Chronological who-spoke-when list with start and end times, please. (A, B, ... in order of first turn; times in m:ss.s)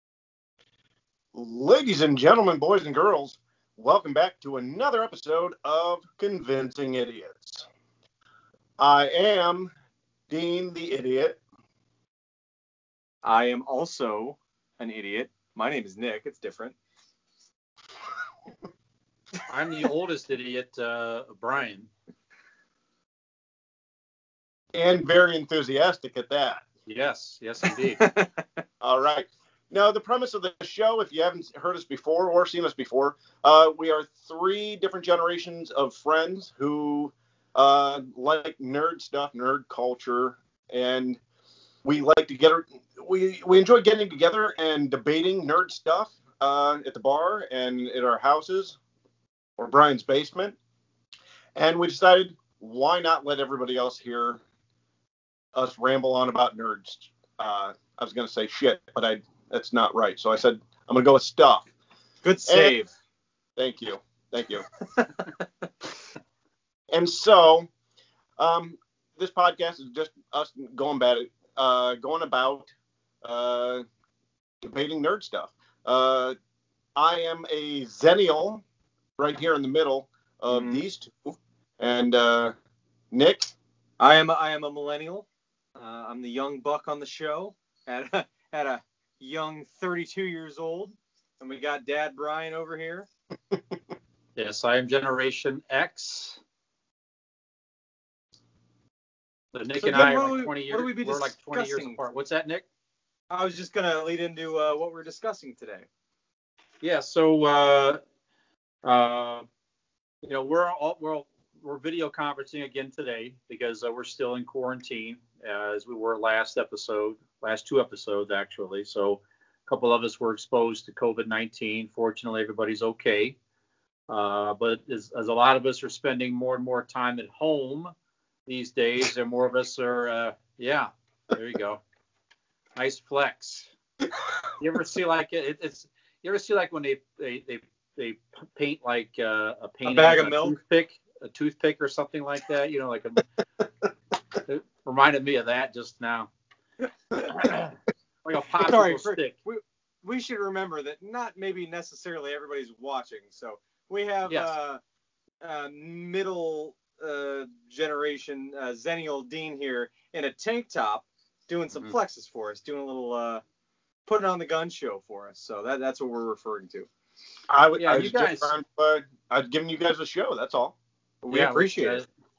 0:01.3-0:07.6 A
0:08.8-0:09.7 A
0:10.3-0:11.4 A
0:13.2-0:16.8 B
0:19.5-0:21.9 C
0:24.7-0:26.6 A
0:26.8-0:28.0 C
0:27.7-0:28.4 B
0:28.8-0:41.2 A
0:41.8-0:48.8 A
0:49.6-0:50.6 A
0:51.6-0:54.4 A
0:55.5-1:01.7 A
1:02.2-1:02.9 B
1:02.4-1:02.7 A
1:03.6-1:04.6 A
1:05.0-1:05.4 B
1:06.9-1:07.7 A
1:08.4-1:13.8 A
1:14.6-1:16.3 A
1:17.0-1:18.6 A
1:19.2-1:22.5 A
1:20.5-1:20.8 B
1:23.1-1:23.5 A
1:24.0-1:25.2 B
1:25.8-1:33.1 B
1:34.4-1:36.4 C
1:39.5-1:42.6 C
1:39.8-1:42.0 B
1:43.3-1:45.8 B
1:46.8-1:48.0 C
1:48.8-1:49.4 C
1:50.2-2:03.4 C
2:04.1-2:07.9 C
2:08.4-2:11.8 C
2:12.8-2:13.7 C
2:14.6-2:23.2 C
2:19.8-2:20.6 B
2:24.4-2:26.3 C
2:27.2-2:27.6 B
2:27.2-2:29.3 C
2:28.6-2:34.8 B
2:34.2-2:34.5 C
2:35.4-2:43.4 B
2:44.1-2:46.9 B
2:47.5-2:50.7 A
2:47.8-2:48.5 C
2:51.2-2:52.0 B
2:51.3-2:52.1 C